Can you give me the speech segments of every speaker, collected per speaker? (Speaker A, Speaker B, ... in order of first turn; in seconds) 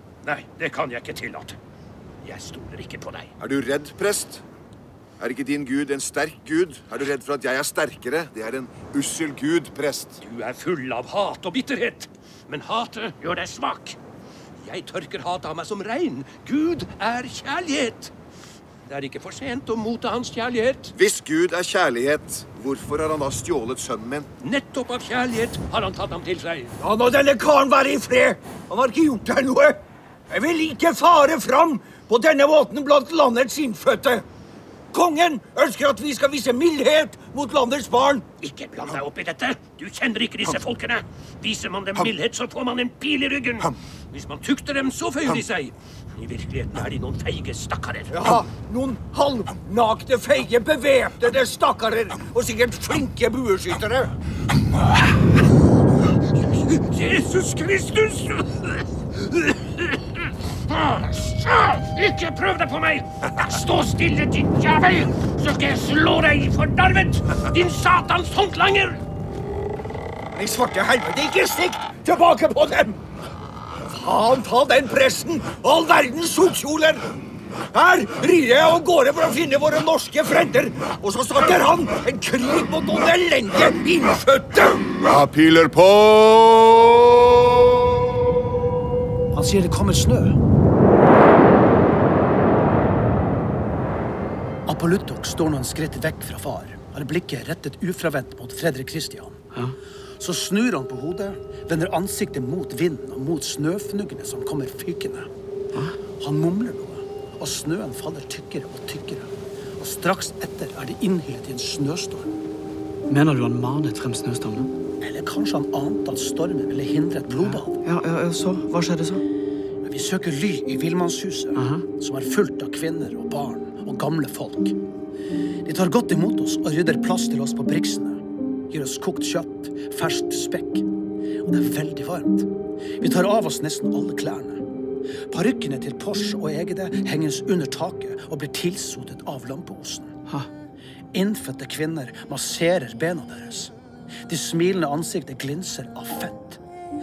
Speaker A: 0.2-1.6, 2.2-3.3, 10.2-14.0, 14.6-18.1, 18.9-20.9, 24.4-26.7, 38.4-48.4, 56.4-69.0
Speaker B: 3.4-4.4, 5.2-10.2, 20.9-24.3, 85.0-87.3
Speaker C: 26.8-34.2, 34.9-38.2, 48.1-54.1, 70.3-73.0, 73.8-77.0, 77.7-84.9
Speaker D: 89.3-90.4, 94.7-99.4, 100.2-105.3, 106.2-112.3, 115.0-117.8, 119.8-124.8, 125.7-130.8, 131.4-132.5, 133.0-134.6, 135.3-140.1, 141.1-143.7, 144.3-146.6
Speaker E: 113.1-114.7, 117.3-119.2, 121.5-121.9